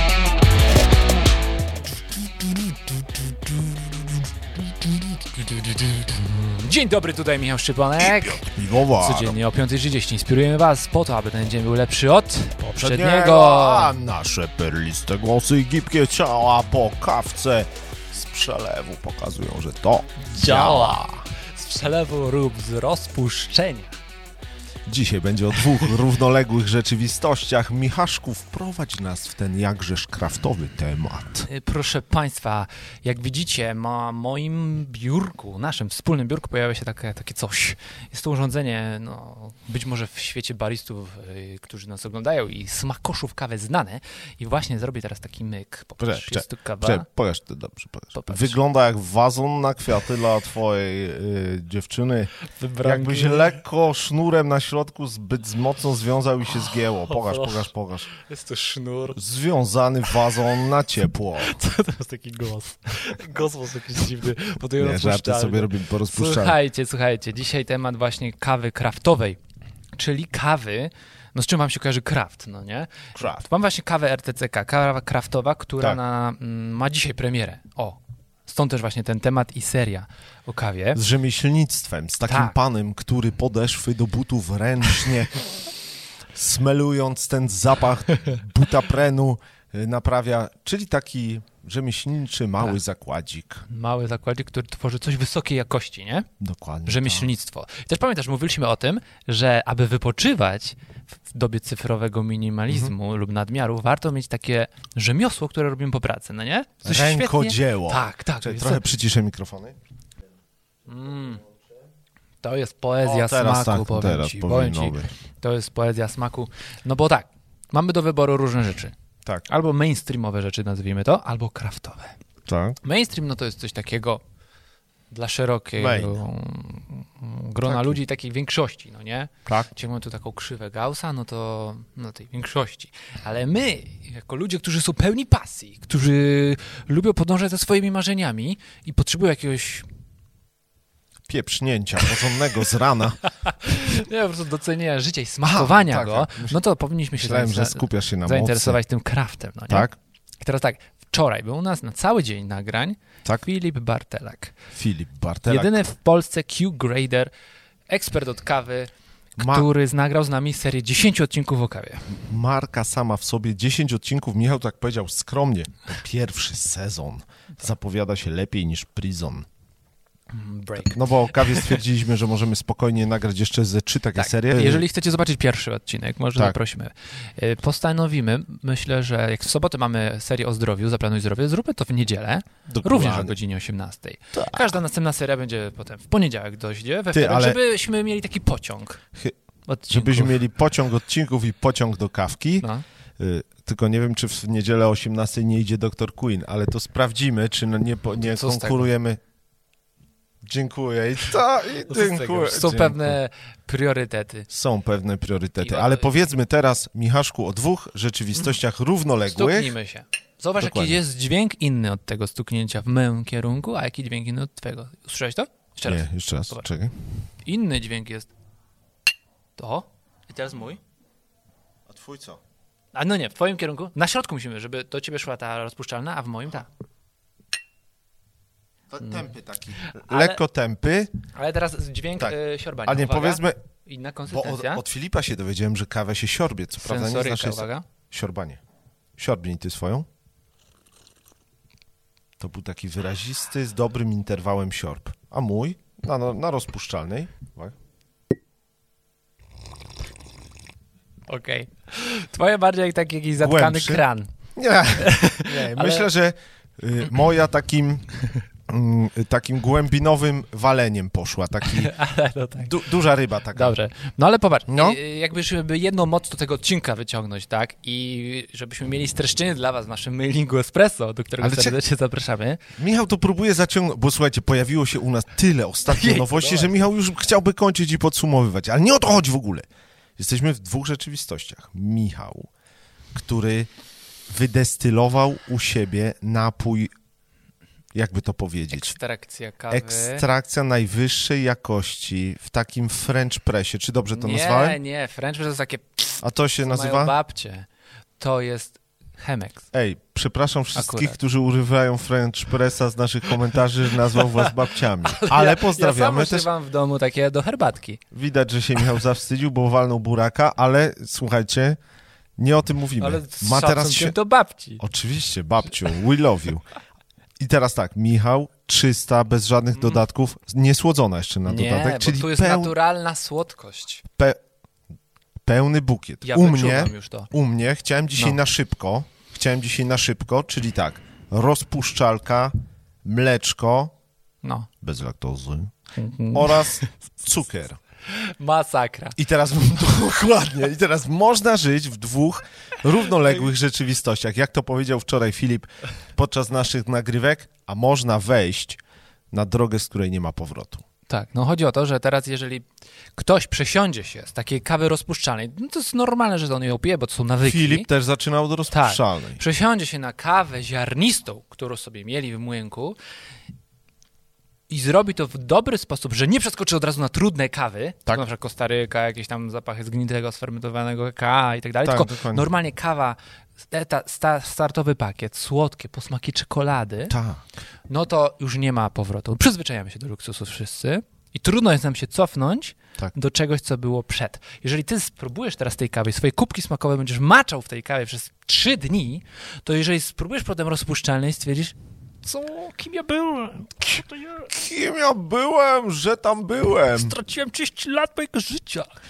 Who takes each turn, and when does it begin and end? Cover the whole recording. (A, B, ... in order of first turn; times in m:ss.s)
0:03.4-0:03.8 A
0:04.8-0:14.0 A
0:08.0-0:09.4 B
0:12.7-0:21.2 B
0:20.3-0:24.0 A
0:24.9-0:31.5 B
0:31.5-0:47.1 A
0:46.0-0:58.1 B
0:48.1-0:48.6 A
0:52.6-0:53.6 A
0:57.1-0:59.2 A
0:59.2-1:01.6 B
1:01.4-1:09.4 A
1:04.8-1:06.6 B
1:10.0-1:21.0 A
1:13.2-1:13.5 B
1:20.9-1:25.5 B
1:22.3-1:22.5 A
1:26.3-1:33.7 B
1:33.7-1:36.3 A
1:36.4-1:37.3 B
1:36.9-1:48.9 A
1:42.7-1:42.9 B
1:46.8-1:49.8 B
1:50.9-1:51.4 A
1:52.4-1:59.0 A
1:53.0-1:55.1 B
1:59.5-2:02.2 A
2:02.5-2:02.8 B
2:02.8-2:04.2 A
2:05.1-2:19.9 A
2:05.8-2:06.2 B
2:07.6-2:08.0 B
2:21.3-2:23.3 B
2:23.4-2:34.6 A
2:25.4-2:26.6 B
2:27.2-2:28.8 B
2:29.7-2:30.0 B
2:34.7-2:35.8 B
2:35.5-2:37.3 A
2:37.9-2:42.1 A
2:39.4-2:39.7 B
2:42.1-2:49.5 B
2:50.3-2:51.8 A
2:50.8-2:54.9 B
2:54.2-3:09.0 A
3:02.7-3:03.4 B
3:04.4-3:04.7 B
3:07.1-3:07.6 B
3:09.7-3:10.4 A
3:09.9-3:19.2 B
3:18.2-3:18.9 A
3:20.4-3:23.2 B
3:21.9-3:24.5 A
3:24.5-3:29.8 B
3:25.6-3:26.1 A
3:29.2-3:36.6 A
3:30.6-3:31.0 B
3:35.8-3:36.9 B
3:37.4-3:38.3 A
3:39.6-3:40.8 A
3:41.9-3:42.4 B
3:42.9-3:46.7 A
3:48.9-3:51.1 B
3:49.8-3:50.4 A
3:51.3-3:54.8 A
3:52.2-3:53.6 B
3:54.3-3:58.6 B
3:56.8-3:57.8 A
3:59.2-4:00.1 B
4:02.4-4:07.7 B
4:11.3-4:14.3 A
4:13.4-4:14.0 B
4:14.6-4:18.1 B
4:15.0-4:16.1 A
4:18.7-4:21.9 B
4:21.6-4:22.8 A
4:22.6-4:23.8 B
4:23.5-4:32.6 A
4:24.7-4:25.0 B
4:31.4-4:31.8 B
4:32.8-4:42.5 B
4:35.9-4:36.8 A
4:43.1-4:43.7 B
4:44.3-4:46.9 B
4:47.9-4:49.0 B
4:48.7-4:50.3 A
4:49.7-4:54.8 B
4:54.1-4:57.7 A
4:56.2-4:57.2 B
4:58.2-4:59.7 A
4:59.7-5:06.5 B
5:00.8-5:01.2 A
5:05.1-5:08.0 A
5:08.1-5:11.8 B
5:12.4-5:14.2 B
5:13.0-5:14.8 A
5:14.8-5:16.6 B
5:17.4-5:22.8 B
5:21.5-5:24.0 A
5:24.1-5:24.4 B
5:25.5-5:33.9 B
5:26.2-5:27.3 A
5:34.4-5:34.7 A
5:34.8-5:35.7 B
5:36.0-5:36.9 A
5:36.3-5:37.8 B
5:38.1-5:39.2 A
5:39.2-5:48.8 B
5:49.3-5:50.8 B
5:51.1-5:52.7 A
5:53.2-5:57.9 A
5:57.4-5:59.4 B
5:58.7-6:03.0 A
6:04.7-6:17.2 A
6:11.8-6:12.5 B
6:17.1-6:17.4 B
6:17.9-6:34.5 A
6:34.5-6:37.1 B
6:36.9-6:38.9 A